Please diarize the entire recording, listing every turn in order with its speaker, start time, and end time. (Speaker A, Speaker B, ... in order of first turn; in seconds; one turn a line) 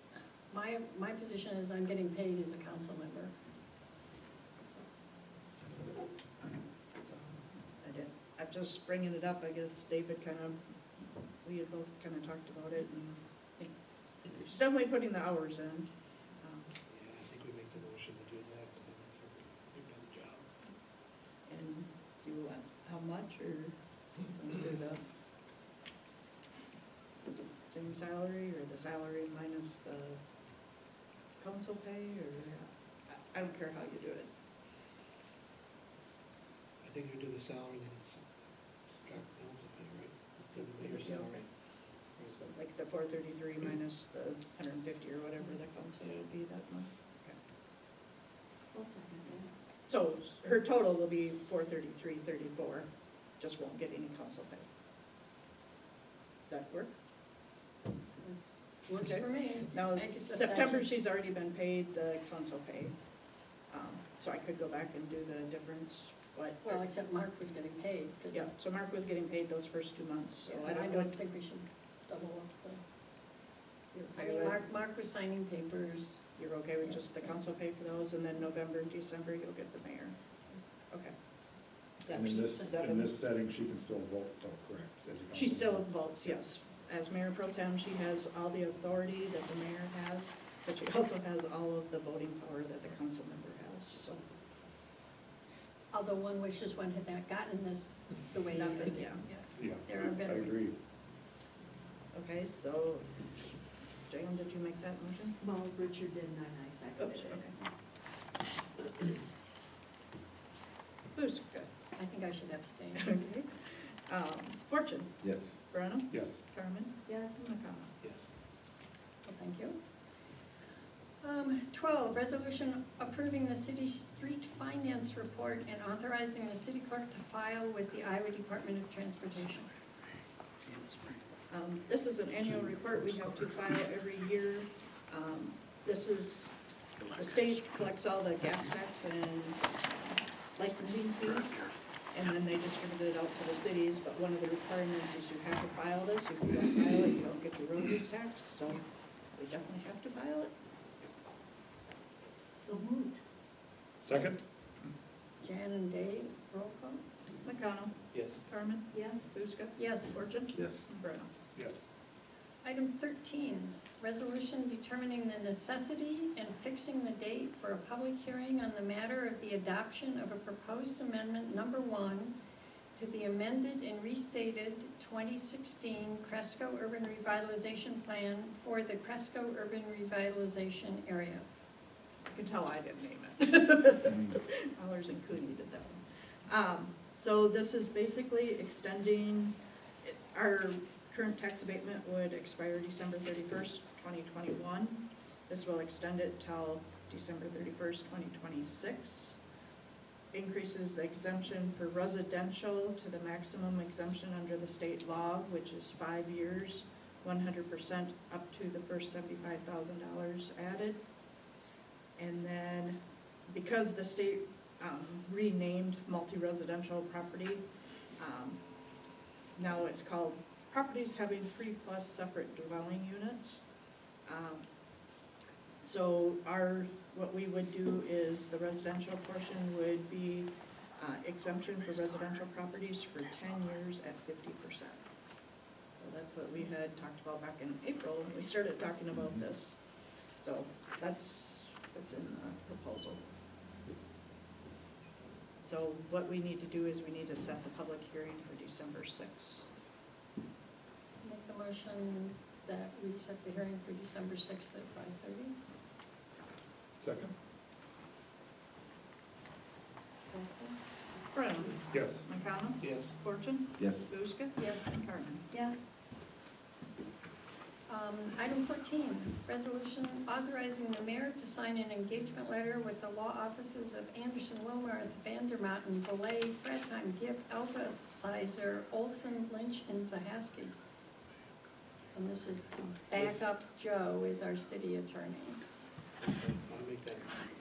Speaker A: 0.5-3.3
Speaker B: 6.4-13.7
Speaker B: 14.2-15.9
Speaker B: 16.4-16.7
Speaker C: 16.9-20.4
Speaker B: 21.5-25.0
Speaker B: 27.6-30.2
Speaker B: 31.4-34.3
Speaker C: 36.8-38.2
Speaker C: 38.9-41.5
Speaker B: 40.8-41.4
Speaker C: 42.2-42.4
Speaker B: 42.3-47.4
Speaker D: 48.7-49.5
Speaker B: 49.9-52.9
Speaker B: 53.4-54.6
Speaker B: 56.5-56.9
Speaker A: 58.2-60.9
Speaker B: 58.9-62.9
Speaker B: 63.7-66.8
Speaker A: 66.6-68.5
Speaker B: 68.3-71.1
Speaker A: 70.5-72.8
Speaker B: 73.9-74.6
Speaker A: 74.1-76.2
Speaker B: 76.3-80.1
Speaker A: 76.8-77.3
Speaker B: 82.0-83.1
Speaker E: 82.1-85.9
Speaker B: 85.3-94.2
Speaker A: 95.9-100.6
Speaker B: 98.5-99.2
Speaker E: 99.6-100.8
Speaker B: 102.1-103.1
Speaker B: 104.1-105.4
Speaker D: 105.4-107.6
Speaker B: 107.0-107.5
Speaker B: 111.1-111.7
Speaker A: 111.9-113.2
Speaker B: 113.0-117.9
Speaker E: 116.1-116.4
Speaker D: 117.1-117.4
Speaker C: 118.0-118.3
Speaker A: 119.2-119.8
Speaker A: 121.2-129.7
Speaker B: 131.5-148.8
Speaker B: 149.3-150.5
Speaker D: 152.5-153.2
Speaker E: 154.0-154.4
Speaker A: 155.4-157.0
Speaker B: 157.4-161.3
Speaker C: 158.1-158.4
Speaker D: 158.9-159.3
Speaker A: 159.8-160.2
Speaker E: 161.5-161.9
Speaker A: 162.6-172.3
Speaker A: 172.9-181.4
Speaker B: 182.3-199.4
Speaker B: 200.3-211.0
Speaker B: 212.2-217.6
Speaker B: 218.2-218.6
Speaker B: 219.6-223.6
Speaker B: 224.2-224.6
Speaker B: 225.8-235.0
Speaker B: 236.0-239.8
Speaker B: 240.4-243.2
Speaker B: 245.6-249.7
Speaker A: 251.2-255.6
Speaker E: 257.0-257.3
Speaker A: 260.3-260.7
Speaker B: 261.3-265.4
Speaker E: 261.9-262.2
Speaker C: 262.8-263.1
Speaker A: 264.6-265.0
Speaker A: 265.5-265.8
Speaker A: 267.9-280.8
Speaker A: 282.1-285.6
Speaker C: 286.2-287.4